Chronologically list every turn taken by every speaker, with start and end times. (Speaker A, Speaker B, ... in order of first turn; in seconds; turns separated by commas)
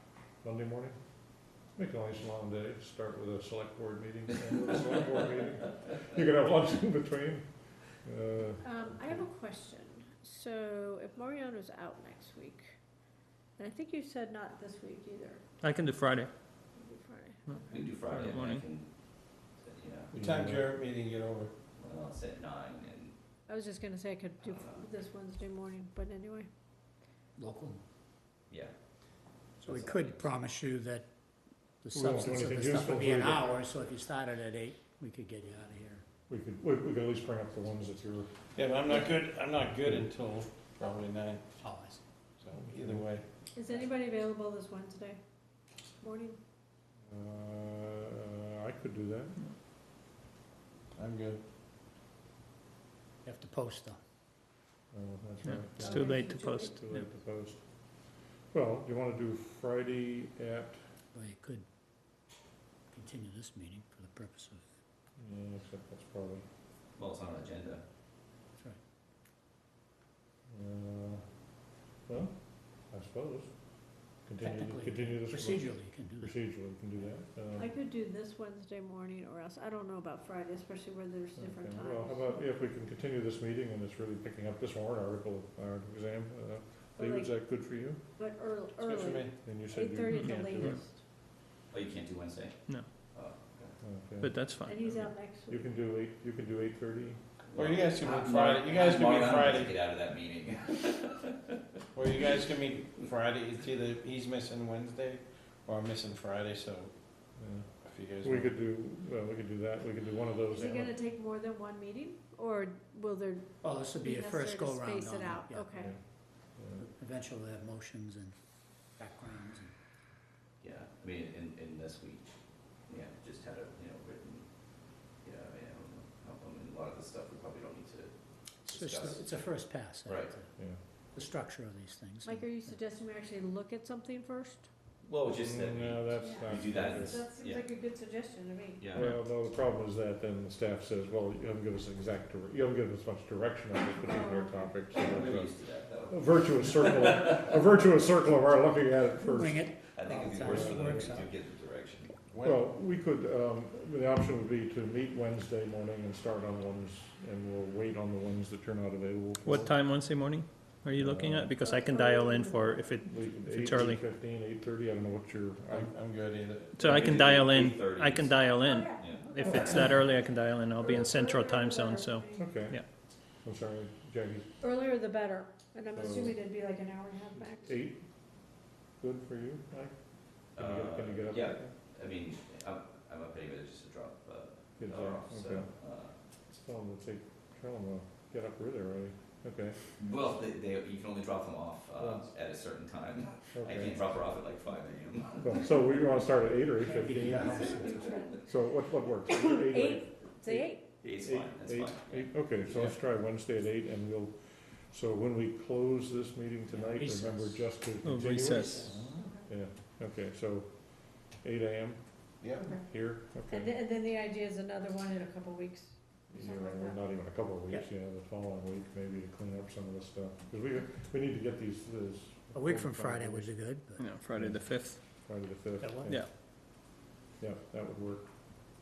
Speaker A: 0.4-9.2, Speaker B: 8.6-12.7, Speaker B: 13.6-15.4, Speaker C: 15.6-16.3, Speaker B: 16.8-17.9, Speaker C: 17.5-18.6, Speaker D: 17.7-18.9, Speaker D: 19.6-20.1, Speaker A: 20.1-20.7, Speaker E: 20.1-21.5, Speaker D: 21.8-23.1, Speaker B: 23.5-26.5, Speaker D: 24.4-24.9, Speaker F: 27.4-27.8, Speaker D: 29.6-30.3, Speaker F: 29.6-31.1, Speaker F: 31.8-36.0, Speaker A: 31.9-33.6, Speaker A: 36.3-38.3, Speaker E: 38.5-41.5, Speaker F: 41.6-42.0, Speaker E: 42.4-43.2, Speaker A: 42.5-43.1, Speaker B: 43.5-45.2, Speaker B: 46.0-46.4, Speaker A: 47.1-49.4, Speaker E: 50.9-51.4, Speaker F: 53.2-54.0, Speaker A: 54.9-60.8, Speaker C: 55.4-57.0, Speaker B: 55.8-56.7, Speaker F: 61.1-61.6, Speaker F: 62.9-64.7, Speaker A: 65.2-66.4, Speaker D: 67.0-67.8, Speaker A: 70.5-71.4, Speaker A: 72.0-77.7, Speaker F: 74.4-76.4, Speaker B: 77.5-82.4, Speaker A: 81.3-88.0, Speaker B: 87.0-87.5, Speaker B: 88.2-91.0, Speaker E: 88.8-89.3, Speaker A: 89.4-90.8, Speaker C: 90.1-90.8, Speaker D: 91.7-93.8, Speaker A: 93.8-97.2, Speaker C: 94.2-95.1, Speaker B: 94.6-95.7, Speaker D: 97.5-101.3, Speaker E: 97.5-99.8, Speaker E: 101.9-106.9, Speaker A: 107.4-111.0, Speaker E: 107.8-108.6, Speaker B: 110.5-116.0, Speaker F: 113.6-115.7, Speaker A: 115.7-116.0, Speaker A: 116.5-116.8, Speaker F: 116.8-118.3, Speaker F: 118.9-119.7, Speaker D: 120.6-122.2, Speaker D: 122.9-124.4, Speaker D: 125.2-128.1, Speaker D: 128.6-129.3, Speaker F: 128.6-130.5, Speaker D: 130.1-130.3, Speaker F: 131.1-132.5, Speaker B: 132.2-134.7, Speaker D: 135.0-137.7, Speaker A: 135.3-137.2, Speaker B: 136.2-138.9, Speaker D: 138.8-139.1, Speaker A: 138.9-149.7, Speaker B: 143.9-144.7, Speaker D: 144.9-147.4, Speaker F: 149.2-151.3, Speaker D: 149.9-152.1, Speaker A: 150.4-151.2, Speaker E: 152.3-152.7, Speaker A: 152.4-159.8, Speaker C: 159.4-164.0, Speaker A: 160.9-161.6, Speaker B: 161.6-163.0, Speaker A: 163.0-165.9, Speaker E: 165.7-167.3, Speaker C: 166.8-172.8, Speaker D: 166.8-168.4, Speaker B: 168.6-170.2, Speaker D: 169.0-170.0, Speaker B: 170.8-172.7, Speaker A: 172.3-172.8, Speaker A: 173.4-174.5, Speaker B: 174.6-177.8, Speaker A: 175.9-176.4, Speaker A: 177.3-178.0, Speaker A: 179.0-180.0, Speaker A: 180.5-181.7, Speaker D: 180.5-186.1, Speaker A: 184.8-185.7, Speaker A: 186.5-189.8, Speaker D: 190.0-195.7, Speaker A: 192.0-192.3, Speaker A: 193.5-194.0, Speaker A: 195.4-213.8, Speaker F: 196.8-198.2, Speaker B: 199.3-200.9, Speaker D: 201.0-202.9, Speaker F: 206.8-207.7, Speaker C: 208.0-208.9, Speaker E: 208.6-209.1, Speaker E: 212.4-212.7, Speaker B: 213.4-217.0, Speaker A: 216.3-223.5, Speaker F: 222.5-224.1, Speaker C: 224.0-225.0, Speaker A: 224.3-226.2, Speaker F: 225.8-226.2, Speaker A: 227.4-228.3